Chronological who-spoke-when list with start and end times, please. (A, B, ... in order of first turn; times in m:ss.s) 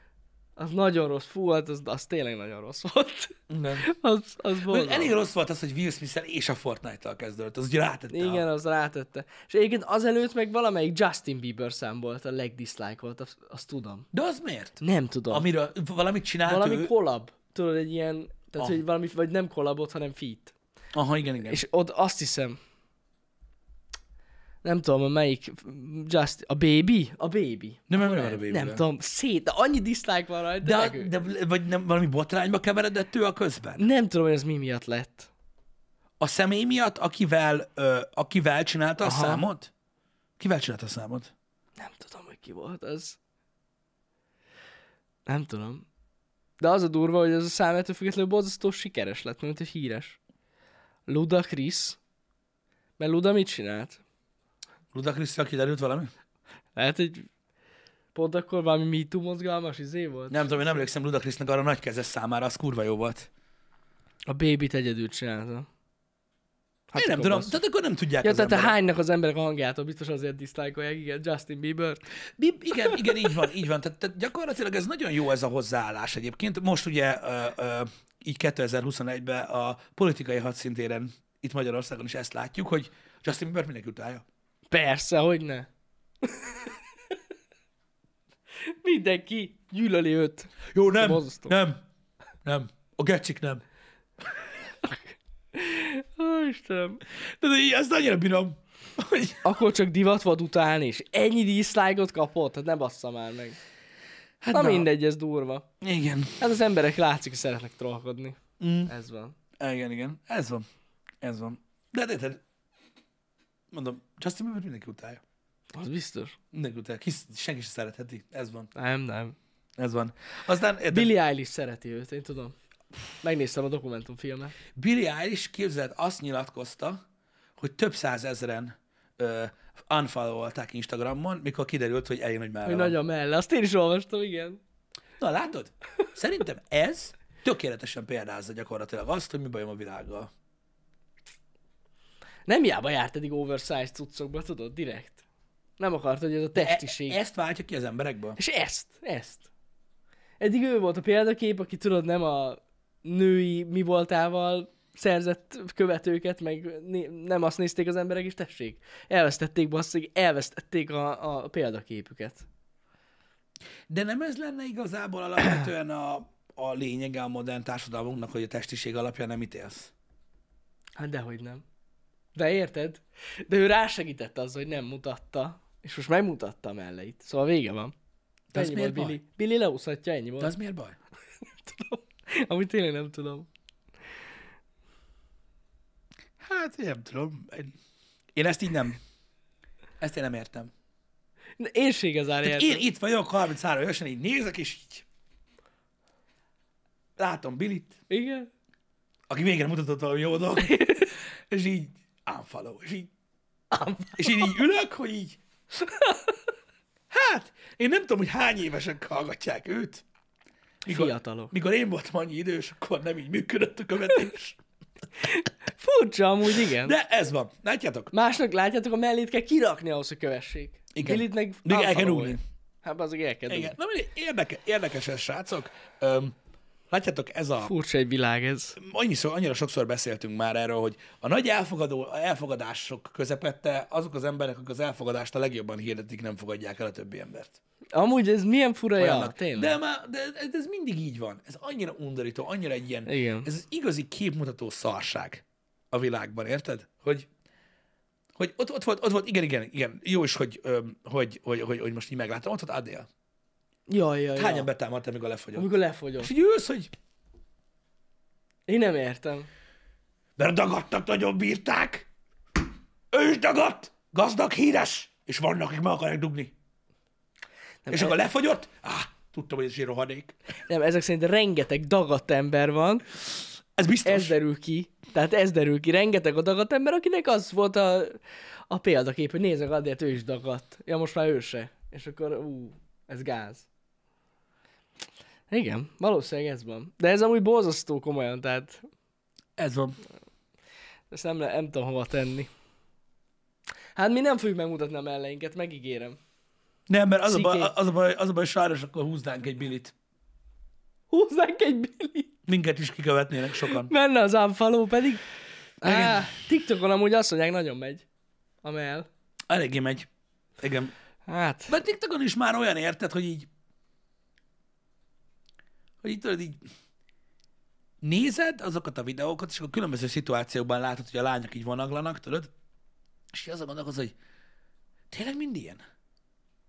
0:00.6-0:05.1 A
0:03.5-0:03.9 B
0:04.6-0:08.4 B
0:08.1-0:14.1 A
0:14.1-0:16.9 B
0:14.8-0:15.4 A
0:16.4-0:20.5 A
0:20.9-0:21.6 B
0:21.4-0:22.6 A
0:24.6-0:31.1 A
0:27.9-0:28.8 B
0:30.6-0:33.9 B
0:33.8-0:35.3 A
0:36.2-0:39.7 B
0:39.0-0:39.4 A
0:40.4-0:41.3 B
0:41.8-0:43.2 A
0:45.2-0:45.8 A
0:46.6-0:50.2 A
0:51.1-0:52.0 A
0:53.0-0:54.0 A
0:54.9-0:56.1 B
0:56.8-0:57.3 A
0:58.1-1:00.8 A
1:00.3-1:03.3 B
1:04.3-1:05.7 A
1:06.9-1:07.6 A
1:07.0-1:08.7 B
1:08.2-1:12.0 A
1:12.4-1:24.2 B
1:12.9-1:13.3 A
1:24.7-1:25.7 A
1:26.2-1:27.1 A
1:28.6-1:31.6 A
1:30.7-1:31.8 B
1:32.4-1:33.6 B
1:34.8-1:37.0 A
1:37.2-1:39.4 B
1:39.4-1:43.6 A
1:44.4-1:44.9 B
1:44.5-1:45.6 A
1:45.8-1:46.4 B
1:46.4-1:49.4 A
1:48.6-1:48.9 B
1:49.6-1:50.6 B
1:51.2-1:52.4 B
1:53.7-1:55.2 B
1:55.7-1:56.4 A
1:56.5-1:58.7 B
1:58.7-1:59.4 A
1:59.8-2:01.1 B
2:00.9-2:02.5 A
2:03.2-2:04.6 A
2:04.7-2:07.0 B
2:07.6-2:13.0 B
2:12.6-2:14.6 A
2:15.2-2:20.3 B
2:22.4-2:25.2 A
2:25.8-2:27.2 A
2:26.5-2:28.4 B
2:28.4-2:29.5 A
2:30.4-2:42.4 A
2:43.9-2:49.9 B
2:51.0-2:51.6 A
2:52.3-2:57.9 A
2:58.5-2:59.2 B
2:58.5-3:00.5 A
3:00.4-3:01.0 B
3:01.4-3:03.5 A
3:06.4-3:07.8 B
3:08.3-3:09.0 B
3:10.0-3:10.7 B
3:11.6-3:12.8 A
3:12.4-3:15.0 B
3:17.2-3:18.0 B
3:18.1-3:18.5 A
3:19.3-3:23.1 B
3:20.6-3:21.1 A
3:23.7-3:24.6 A
3:24.2-3:25.4 B
3:25.8-3:26.4 A
3:27.1-3:30.0 B
3:30.8-3:31.5 A
3:30.8-3:34.6 B
3:35.2-3:36.9 A
3:36.8-3:38.1 B
3:38.1-3:43.8 A
3:40.9-3:42.4 B
3:43.5-3:46.3 B
3:46.9-3:47.7 B
3:47.6-3:48.8 A
3:48.8-3:57.6 B
3:57.9-3:59.8 A
3:59.0-4:07.3 B
4:03.1-4:03.5 A
4:08.4-4:13.1 B
4:13.9-4:14.7 A
4:14.4-4:16.9 B
4:15.5-4:16.3 A
4:18.7-4:19.5 A
4:20.4-4:22.1 B
4:23.1-4:26.5 B
4:27.8-4:28.2 A
4:27.9-4:30.4 B
4:30.7-4:33.0 A
4:33.8-4:34.4 B
4:34.0-4:43.7 A
4:45.5-4:48.8 A
4:49.6-4:50.0 B
4:51.1-4:52.5 A
4:53.9-4:56.2 A
4:56.9-4:59.9 B
4:57.2-4:57.7 A
5:01.1-5:02.3 A
5:02.5-5:03.9 B
5:03.5-5:05.2 A
5:05.8-5:08.0 A
5:05.8-5:06.3 B
5:08.6-5:09.1 A
5:09.5-5:10.1 B
5:10.6-5:10.9 B
5:11.3-5:11.7 A
5:11.7-5:13.5 B
5:16.0-5:16.6 B
5:18.0-5:22.5 B
5:23.3-5:24.1 B
5:25.1-5:25.8 B